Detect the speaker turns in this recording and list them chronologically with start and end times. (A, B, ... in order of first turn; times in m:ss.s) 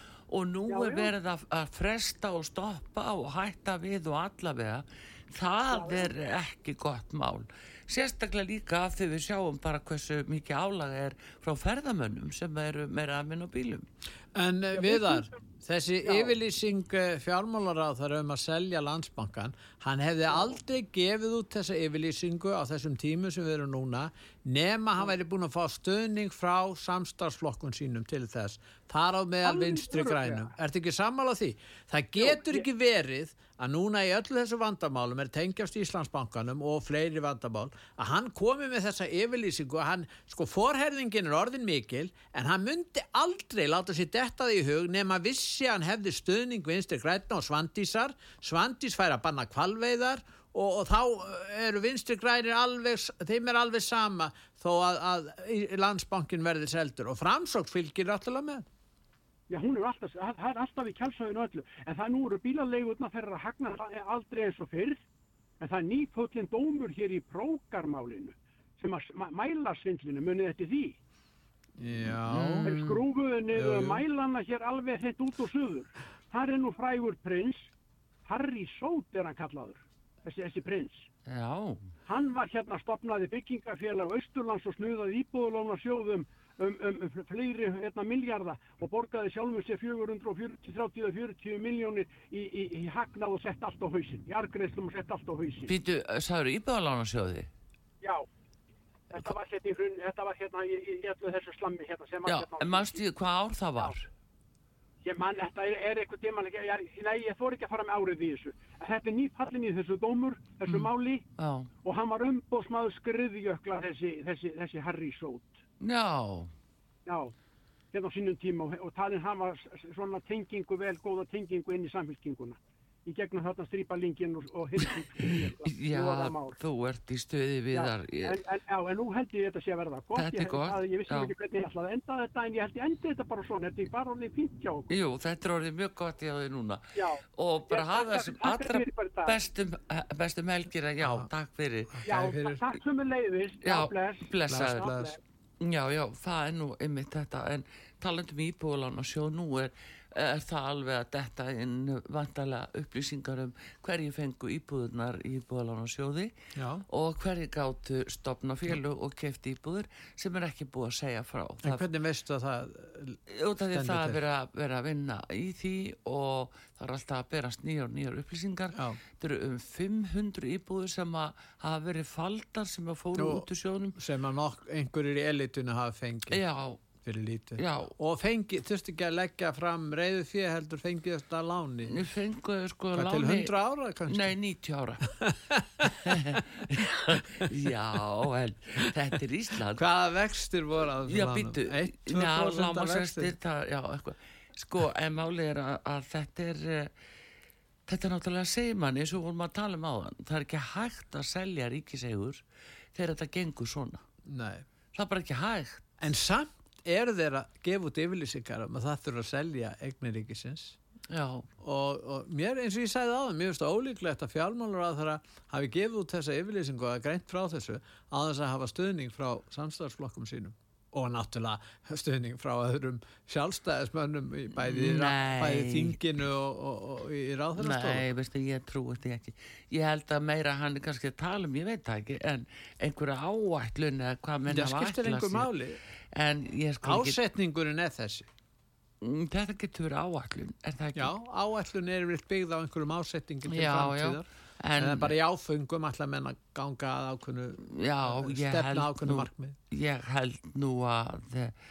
0:00.3-0:13.8 A
0:00.7-0:01.1 B
0:05.7-0:06.1 B
0:14.3-0:58.7 C
0:14.7-0:15.4 B
0:16.0-0:16.3 B
0:20.3-0:20.5 B
0:29.4-0:30.5 B
0:32.2-0:32.7 B
0:59.5-1:05.0 B
1:05.6-1:11.0 B
1:11.8-1:14.0 C
1:12.0-1:12.8 A
1:12.6-1:17.7 B
1:18.2-1:21.1 B
1:21.2-1:21.8 A
1:22.0-1:35.7 B
1:35.7-1:37.5 A
1:38.0-1:38.3 B
1:39.1-1:43.0 B
1:42.3-1:44.1 A
1:45.0-1:51.2 B
1:50.6-1:51.7 A
1:51.8-1:55.6 B
1:55.8-1:56.5 A
1:57.0-1:57.3 B
1:57.9-2:06.6 B
2:05.3-2:08.4 A
2:07.7-2:14.9 B
2:10.2-2:11.3 A
2:14.9-2:16.8 A
2:16.9-2:19.4 B
2:17.3-2:22.1 A
2:21.0-2:21.3 C
2:21.9-2:22.6 C
2:22.0-2:25.2 B
2:23.6-2:24.9 A
2:24.5-2:25.2 C
2:25.6-2:36.3 A
2:36.5-2:36.8 C
2:36.9-2:41.8 A
2:41.6-2:44.2 C
2:43.3-2:54.0 A
2:48.7-2:49.0 C
2:53.2-2:56.4 C
2:56.3-2:56.8 A
2:57.0-3:02.1 C
2:57.6-2:57.9 A
3:01.8-3:03.5 A
3:02.9-3:04.4 C
3:04.1-3:05.1 A
3:05.2-3:06.4 C
3:05.9-3:09.8 A
3:09.7-3:13.3 C
3:11.1-3:16.9 A
3:17.9-3:22.4 A
3:22.9-3:24.0 A
3:24.2-3:24.6 C
3:24.9-3:25.8 A
3:26.0-3:30.8 C
3:31.1-3:31.5 A
3:31.6-3:48.0 C
3:44.6-3:46.0 A
3:47.6-3:55.5 A
3:54.5-3:55.8 C
3:56.1-3:57.2 A
3:56.8-3:58.3 C
3:59.0-4:01.1 A
4:00.9-4:09.6 C
4:03.5-4:05.1 A
4:07.7-4:11.5 A